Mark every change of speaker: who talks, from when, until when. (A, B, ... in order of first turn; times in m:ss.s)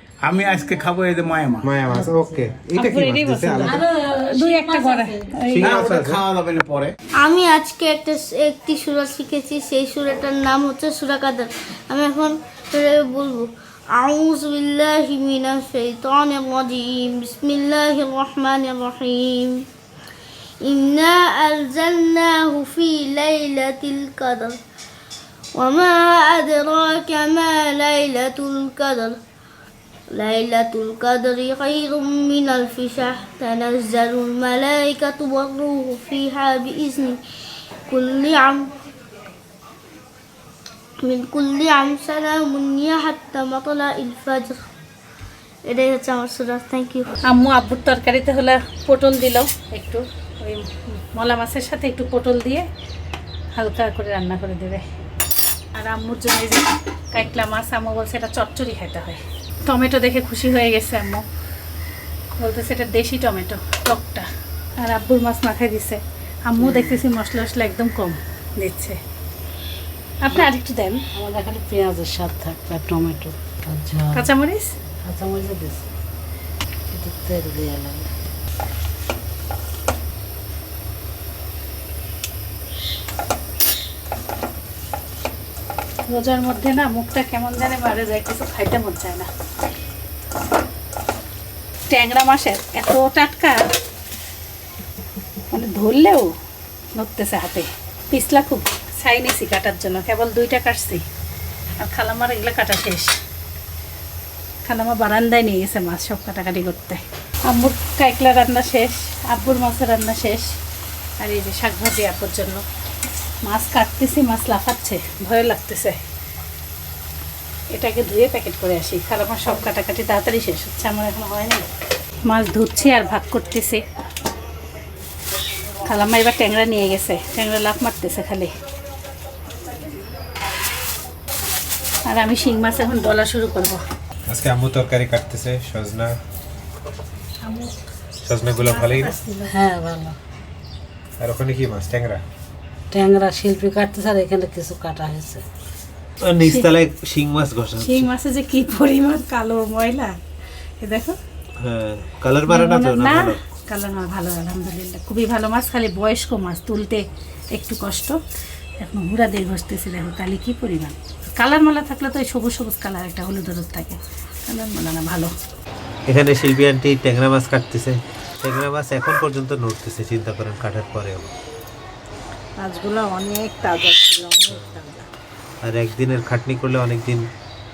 0:00.2-0:01.7 A
0:01.6-0:03.8 B
0:02.8-0:05.8 C
0:03.6-0:05.4 D
0:05.5-0:06.2 B
0:05.6-0:06.9 A
0:07.2-0:19.7 E
0:20.6-0:24.6 E
0:25.6-0:29.2 E
0:30.1-0:37.2 E
0:37.9-0:38.7 E
0:41.0-0:44.6 E
0:45.6-0:47.2 E
0:47.3-0:52.7 C
0:53.6-0:54.9 C
0:55.8-1:01.2 C
1:02.4-1:04.3 C
1:04.8-1:09.0 C
1:06.6-1:07.0 D
1:10.2-1:11.0 C
1:11.1-1:14.3 D
1:14.1-1:14.7 C
1:15.0-1:15.8 D
1:16.9-1:18.1 D
1:26.1-1:29.3 C
1:31.9-1:33.6 C
1:35.5-1:36.3 C
1:37.0-1:41.0 C
1:41.8-1:43.2 C
1:44.7-1:50.6 C
1:51.2-1:52.6 C
1:53.4-1:56.0 C
1:57.7-2:01.6 C
2:02.3-2:03.8 C
2:05.9-2:08.5 C
2:12.1-2:13.8 C
2:14.3-2:16.2 B
2:17.4-2:17.7 C
2:18.2-2:19.2 B
2:18.6-2:19.6 C
2:19.5-2:20.2 D
2:21.2-2:22.2 B
2:22.9-2:25.4 D
2:26.2-2:28.1 B
2:27.8-2:30.2 C
2:30.8-2:31.2 C
2:31.6-2:33.4 B
2:32.5-2:38.2 C
2:38.8-2:45.3 C
2:46.1-2:51.3 B
2:52.6-2:55.1 F
2:54.5-2:54.8 B
2:55.6-2:57.3 B